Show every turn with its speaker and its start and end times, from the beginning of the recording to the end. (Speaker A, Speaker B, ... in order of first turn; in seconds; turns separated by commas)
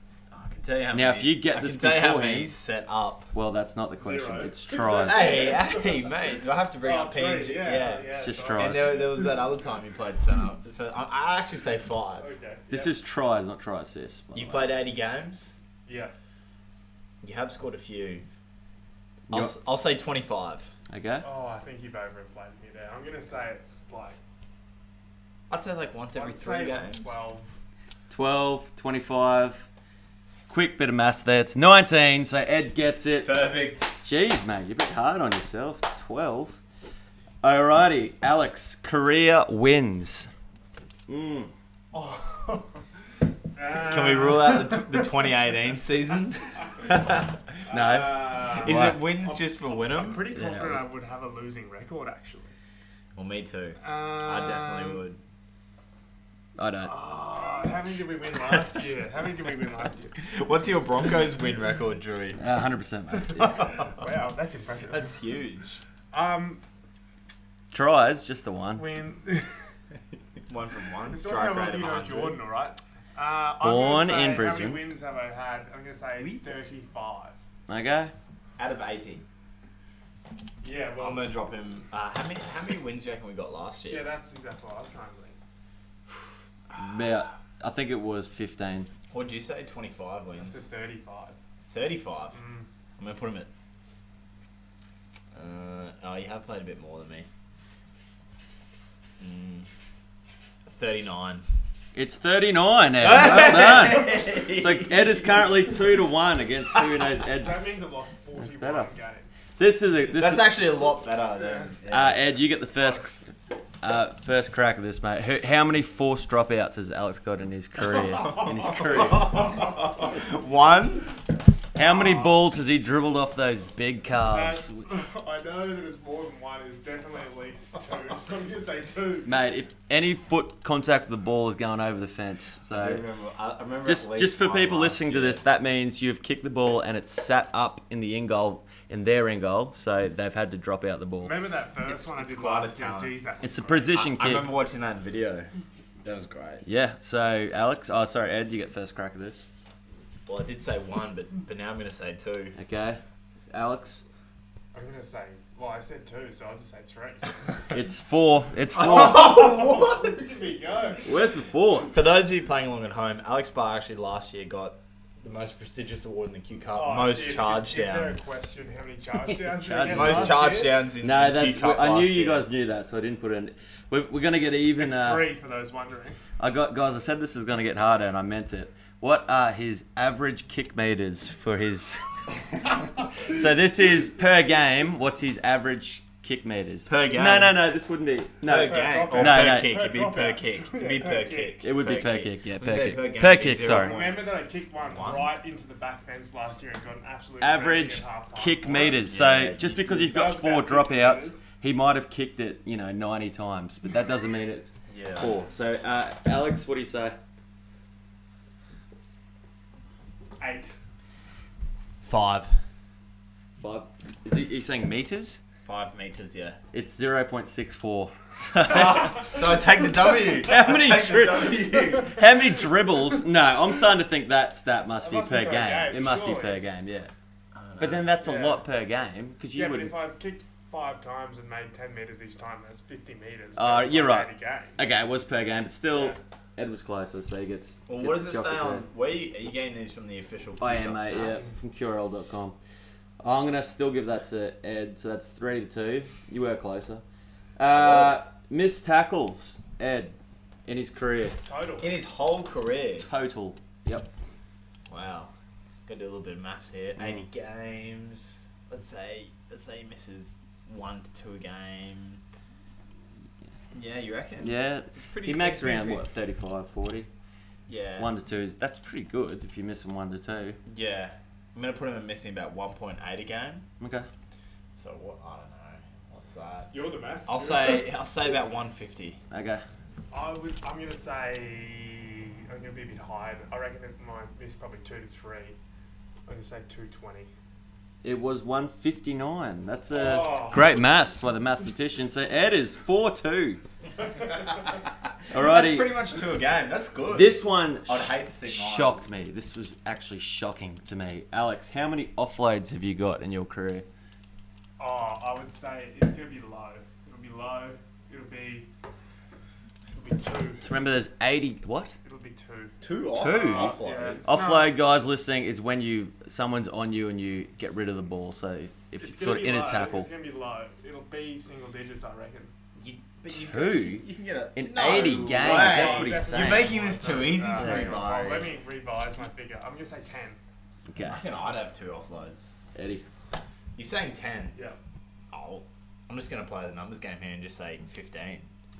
Speaker A: 0.3-3.3, Speaker B: 0.9-2.5, Speaker B: 3.3-5.4, Speaker C: 4.0-6.1, Speaker A: 4.8-12.3, Speaker C: 6.8-9.8, Speaker B: 8.2-9.0, Speaker C: 12.2-13.0, Speaker B: 12.7-14.8, Speaker A: 14.3-15.6, Speaker C: 15.9-16.1, Speaker A: 17.2-18.2, Speaker B: 19.3-19.6, Speaker A: 19.3-20.7, Speaker B: 20.9-21.2, Speaker C: 21.2-24.2, Speaker A: 25.5-27.2, Speaker C: 26.1-27.5, Speaker B: 28.1-29.7, Speaker B: 30.5-33.3, Speaker A: 33.2-34.0, Speaker B: 34.0-36.6, Speaker B: 37.4-40.3, Speaker B: 41.1-41.5, Speaker C: 41.9-42.8, Speaker C: 43.5-45.3, Speaker A: 43.8-47.4, Speaker C: 47.7-52.5, Speaker B: 47.7-49.0, Speaker A: 48.4-50.3, Speaker B: 50.3-50.8, Speaker A: 53.1-55.2, Speaker C: 53.8-55.0, Speaker B: 56.6-56.9, Speaker C: 56.8-60.2, Speaker A: 60.2-62.4, Speaker B: 62.4-63.7, Speaker A: 63.4-63.9, Speaker C: 63.5-65.1, Speaker A: 64.9-65.8, Speaker C: 66.1-66.6, Speaker B: 67.7-68.8, Speaker C: 68.8-69.7, Speaker A: 70.5-72.4, Speaker C: 71.1-77.4, Speaker B: 73.6-74.8, Speaker A: 76.2-76.6, Speaker B: 77.7-78.1, Speaker A: 78.6-79.2, Speaker C: 80.6-81.3, Speaker A: 81.0-84.1, Speaker C: 83.9-85.4, Speaker A: 86.7-87.2, Speaker B: 86.8-88.9, Speaker A: 89.1-90.6, Speaker C: 90.4-91.4, Speaker A: 91.7-92.4, Speaker C: 92.3-92.7, Speaker A: 93.0-93.5, Speaker A: 95.3-97.3, Speaker A: 99.2-99.7, Speaker A: 100.7-101.4, Speaker B: 102.0-107.6, Speaker A: 103.0-105.5, Speaker C: 107.3-109.3, Speaker B: 108.4-108.9, Speaker B: 109.6-110.6, Speaker A: 110.1-112.2, Speaker C: 111.4-111.7, Speaker B: 111.9-113.2, Speaker C: 112.7-113.2, Speaker B: 113.8-119.5, Speaker A: 118.2-121.1, Speaker B: 121.8-124.8, Speaker C: 121.8-122.4, Speaker C: 124.3-129.3, Speaker B: 129.3-133.0, Speaker A: 132.7-135.4, Speaker B: 133.8-141.3, Speaker C: 141.2-143.9, Speaker A: 141.9-143.2, Speaker B: 143.4-144.5, Speaker A: 143.9-145.5, Speaker A: 146.0-146.6, Speaker B: 146.6-149.4, Speaker A: 150.3-152.6, Speaker B: 152.6-153.0, Speaker B: 153.5-154.0, Speaker C: 154.7-157.7, Speaker B: 157.7-159.3, Speaker A: 158.8-160.1, Speaker C: 158.8-161.1, Speaker B: 161.0-161.9, Speaker A: 161.9-168.4, Speaker C: 166.7-170.8, Speaker B: 169.3-175.3, Speaker A: 169.8-172.5, Speaker C: 174.8-176.2, Speaker B: 176.4-182.1, Speaker B: 183.1-189.8, Speaker A: 186.9-187.7, Speaker A: 188.4-194.3, Speaker C: 188.5-191.6, Speaker B: 191.6-194.0, Speaker C: 193.7-199.1, Speaker A: 194.8-195.3, Speaker B: 197.4-207.2, Speaker A: 199.0-199.8, Speaker C: 199.6-201.4, Speaker A: 204.9-205.3, Speaker C: 210.4-210.7, Speaker A: 212.0-212.5, Speaker B: 213.6-215.4, Speaker A: 215.7-216.6, Speaker B: 216.7-219.3, Speaker A: 218.7-222.2, Speaker B: 220.4-227.1, Speaker C: 225.0-226.6, Speaker A: 227.6-228.1, Speaker B: 227.8-229.9, Speaker C: 228.2-228.6, Speaker C: 229.5-234.8, Speaker B: 233.6-238.9, Speaker C: 235.9-236.2, Speaker A: 237.9-241.4, Speaker B: 240.6-242.6, Speaker B: 243.2-247.0, Speaker B: 247.6-250.2, Speaker A: 247.7-248.3, Speaker B: 250.7-251.4, Speaker C: 251.4-251.9, Speaker A: 251.8-253.1, Speaker B: 253.0-254.1, Speaker A: 254.9-255.3, Speaker A: 255.9-262.2, Speaker B: 257.0-257.2, Speaker A: 263.7-266.0, Speaker B: 264.4-267.1, Speaker A: 267.7-268.1, Speaker B: 268.0-270.6, Speaker A: 270.7-273.6, Speaker B: 273.8-274.1, Speaker A: 274.8-276.7, Speaker C: 276.7-277.8, Speaker A: 277.3-279.2, Speaker B: 279.3-279.6, Speaker C: 280.1-285.6, Speaker C: 286.3-287.3, Speaker B: 288.0-293.6, Speaker C: 289.9-290.8, Speaker A: 294.4-299.0, Speaker B: 295.3-295.9, Speaker B: 297.1-303.9, Speaker C: 304.8-308.7, Speaker C: 309.9-310.7, Speaker B: 310.6-312.0, Speaker C: 312.1-314.7, Speaker A: 312.8-314.3, Speaker B: 313.1-320.1, Speaker C: 319.0-322.5, Speaker A: 322.8-328.5, Speaker B: 323.3-326.8, Speaker C: 325.3-330.4, Speaker B: 327.5-328.2, Speaker B: 330.9-331.2, Speaker A: 331.0-332.6, Speaker B: 332.8-333.1, Speaker A: 333.8-334.6, Speaker A: 335.3-338.5